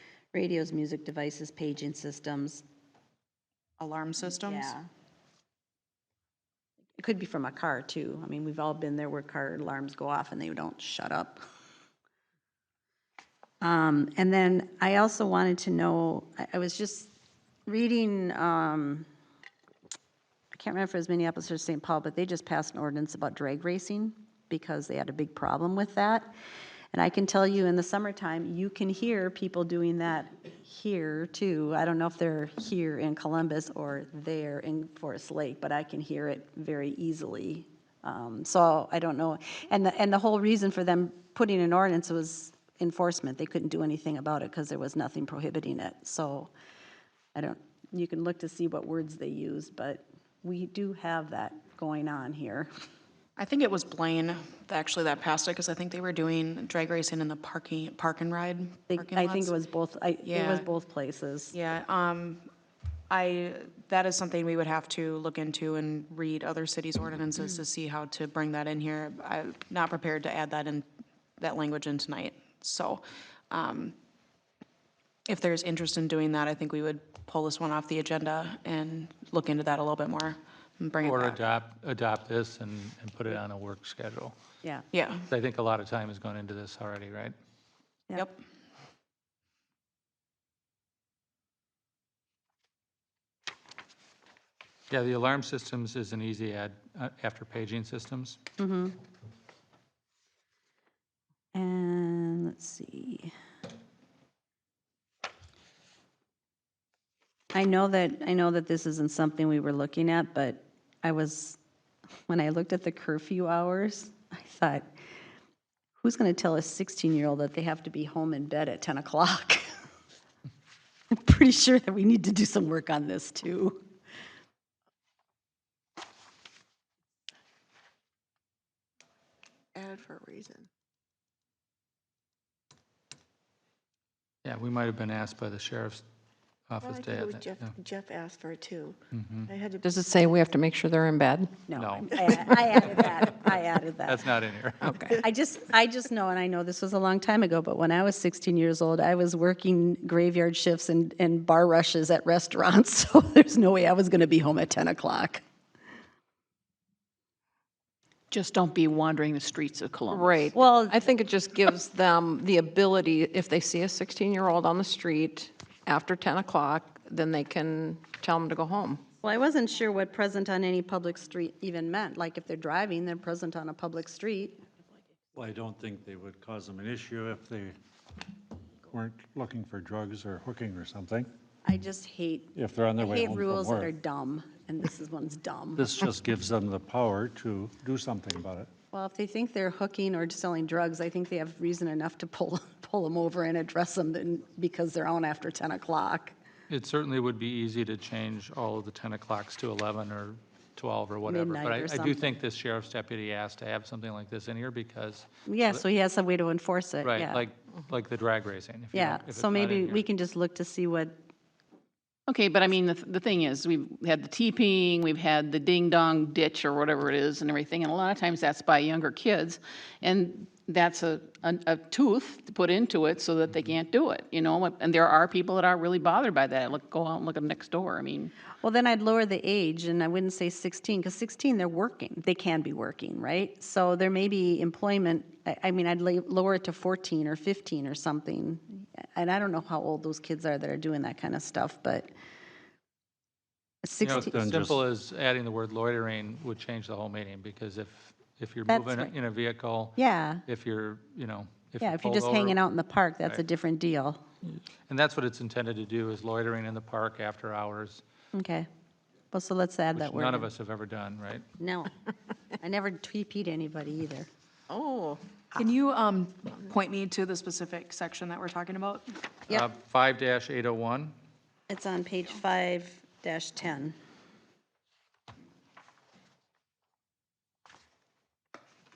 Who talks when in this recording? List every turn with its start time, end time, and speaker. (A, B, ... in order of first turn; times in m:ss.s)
0:00.3-0:02.6 A
0:03.8-0:04.7 B
0:04.4-0:04.8 A
0:07.0-0:11.4 A
0:13.6-0:17.1 A
0:17.7-0:19.1 A
0:20.5-0:26.3 A
0:26.9-0:46.5 A
0:47.4-0:52.7 A
0:53.4-0:59.6 B
0:58.9-1:01.6 A
1:00.2-1:00.7 B
1:01.5-1:02.5 B
1:03.1-1:14.0 B
1:15.3-1:21.4 B
1:21.0-1:24.4 C
1:24.9-1:25.3 B
1:25.3-1:27.4 C
1:34.9-1:38.4 C
1:38.6-1:39.0 A
1:41.5-1:43.3 A
1:47.5-1:51.6 A
1:52.3-1:54.9 A
1:56.0-1:59.7 A
2:01.1-2:03.9 A
2:09.8-2:10.5 D
2:14.4-2:16.0 C
2:16.7-2:17.7 C
2:17.0-2:18.8 D
2:19.1-2:19.5 C
2:19.8-2:21.5 E
2:21.7-2:24.2 A
2:21.8-2:22.3 C
2:24.0-2:25.0 C
2:25.2-2:35.4 A
2:38.3-2:40.5 F
2:40.1-2:49.0 E
2:40.6-2:41.0 A
2:49.2-2:54.6 A
2:55.3-2:57.8 G
2:58.9-3:01.3 G
3:01.6-3:05.9 A
3:02.6-3:03.9 G
3:05.8-3:08.7 G
3:08.9-3:16.4 A
3:16.7-3:25.8 C
3:21.2-3:22.3 A
3:25.5-3:27.4 A
3:27.0-3:30.0 C
3:28.9-3:31.2 A
3:32.3-3:48.3 F
3:48.6-4:02.1 A
4:03.8-4:04.6 A
4:04.0-4:12.6 C
4:04.0-4:04.8 G
4:08.7-4:09.1 A
4:10.0-4:10.4 A
4:11.8-4:14.2 A
4:14.9-4:18.0 C
4:18.3-4:18.7 A
4:19.3-4:20.5 A
4:20.0-4:21.4 C
4:21.6-4:21.9 A
4:22.6-4:24.3 A
4:24.7-4:25.2 E
4:25.6-4:29.1 B
4:29.5-4:31.2 C
4:31.7-4:34.0 A